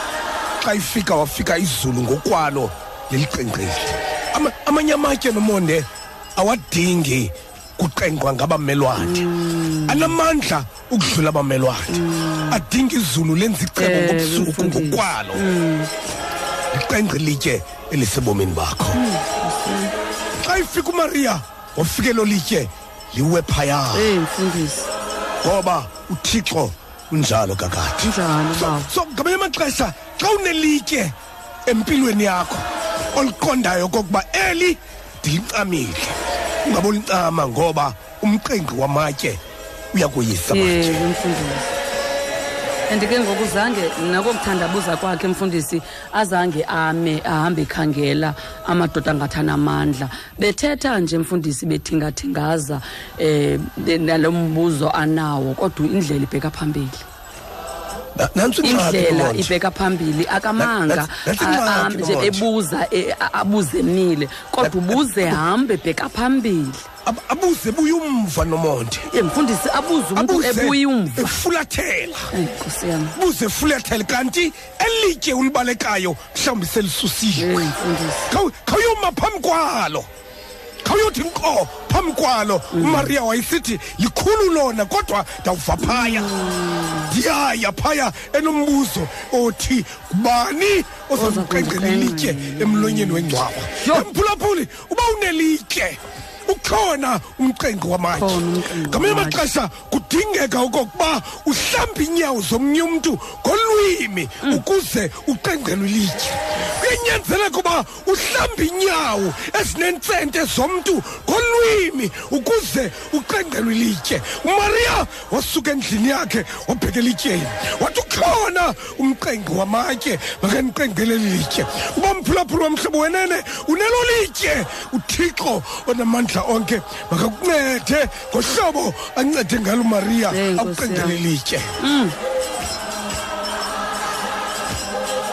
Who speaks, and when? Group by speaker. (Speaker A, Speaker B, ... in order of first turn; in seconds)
Speaker A: 0.6-9.2, 9.9-15.4, 16.7-19.0, 20.4-24.1, 25.4-31.1, 31.6-39.4, 39.9-41.0, 58.1-59.5, 60.6-62.4, 64.6-65.4, 67.0-69.1, 70.1-72.3, 73.1-77.7, 78.3-80.1, 80.8-86.3, 87.1-131.7
Speaker B: 9.0-10.2, 11.9-12.6, 13.8-15.9, 18.9-19.9, 23.9-24.9, 28.0-28.9, 40.5-41.7, 42.9-57.0, 58.6-66.9, 69.1-71.4, 72.3-73.2, 77.4-78.3, 82.7-83.1, 85.8-87.1, 91.1-94.0, 98.1-99.5, 130.3-131.2, 131.8-132.2